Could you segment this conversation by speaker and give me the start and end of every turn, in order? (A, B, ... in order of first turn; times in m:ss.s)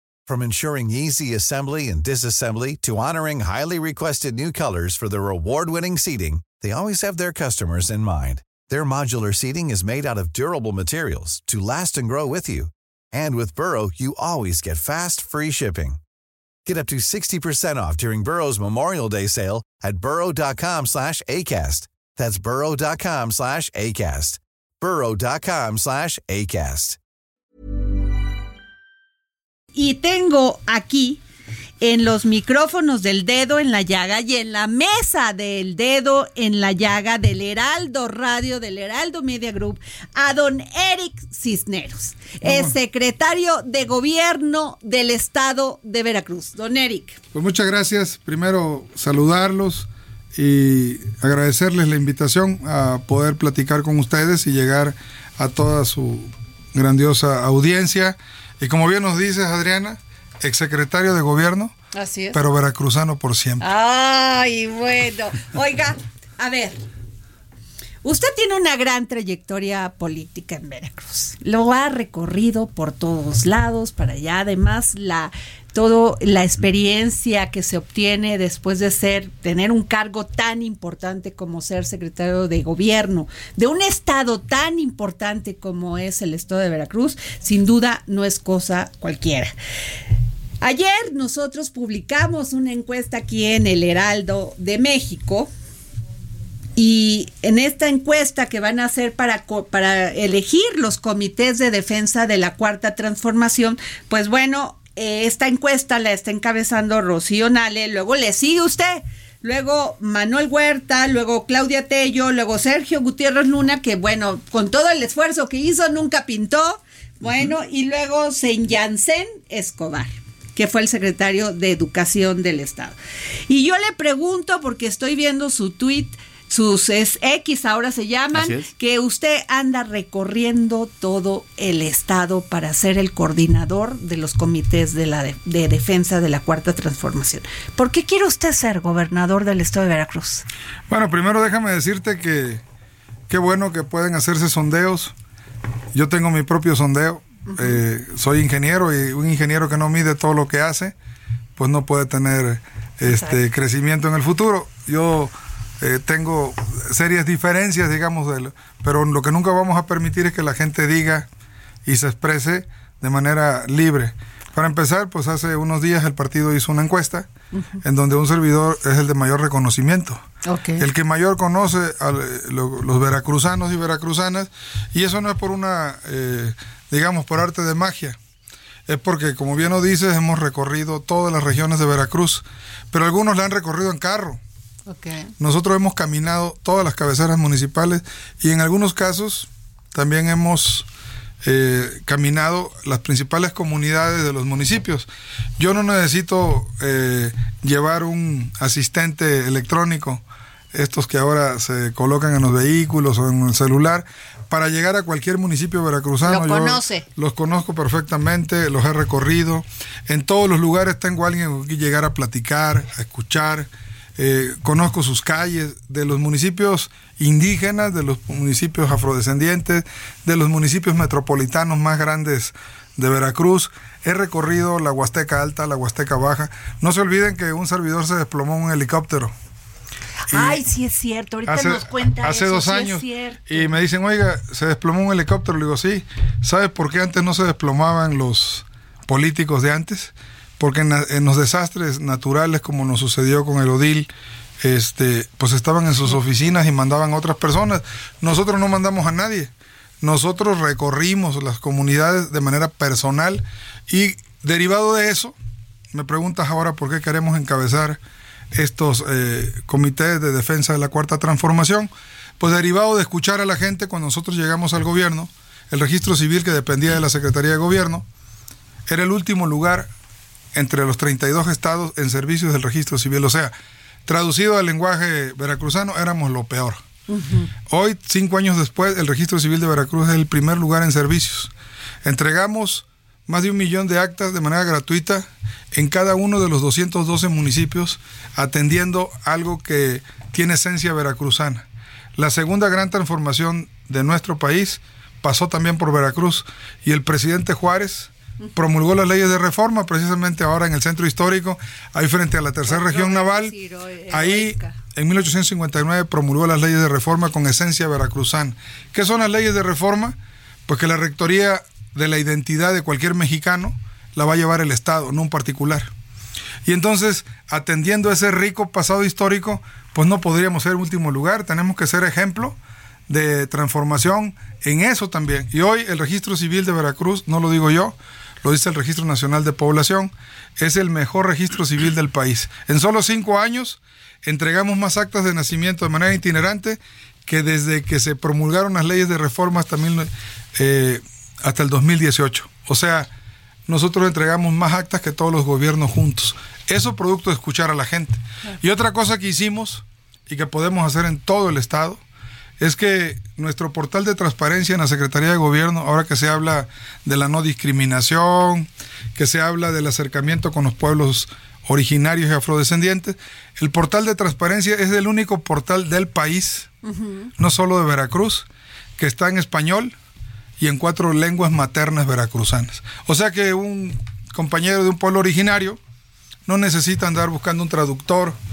0:00.3-0:16.0 A
0:16.7-0:27.0 A
0:29.7-0:31.2 B
0:31.8-0:47.2 B
0:42.4-0:42.7 C
0:47.3-1:01.7 C
1:01.9-1:02.4 B
1:02.3-1:03.7 C
1:03.6-1:06.8 B
1:08.0-1:29.5 B
1:30.6-1:35.5 B
1:36.8-2:03.0 B
2:03.5-2:20.5 B
2:20.9-2:22.6 C
2:23.3-2:25.2 C
2:25.9-2:31.0 C
2:31.6-2:41.3 C
2:33.1-2:33.3 B
2:41.8-2:47.3 C
2:47.8-2:50.2 C
2:50.5-2:50.9 B
2:50.8-2:58.2 C
2:58.9-3:04.4 C
3:04.9-3:05.3 B
3:05.4-3:10.9 C
3:11.4-3:49.3 C
3:26.2-3:27.0 B
3:50.3-3:53.7 B
3:50.3-3:50.6 C
3:51.5-4:04.1 C
4:04.6-4:15.4 C
4:15.9-4:18.0 C
4:18.5-4:28.1 C
4:28.9-4:29.9 C
4:30.5-4:33.5 C
4:34.1-4:36.8 C
4:37.1-4:37.5 B
4:37.7-4:41.5 C
4:42.0-5:03.6 C
5:02.7-5:04.8 B
5:04.1-5:15.9 C
5:16.6-5:43.1 C
5:43.7-5:52.0 C
5:52.6-6:06.7 C
6:06.8-6:07.3 B
6:07.4-6:10.0 C
6:10.6-6:15.8 C
6:16.5-6:18.4 C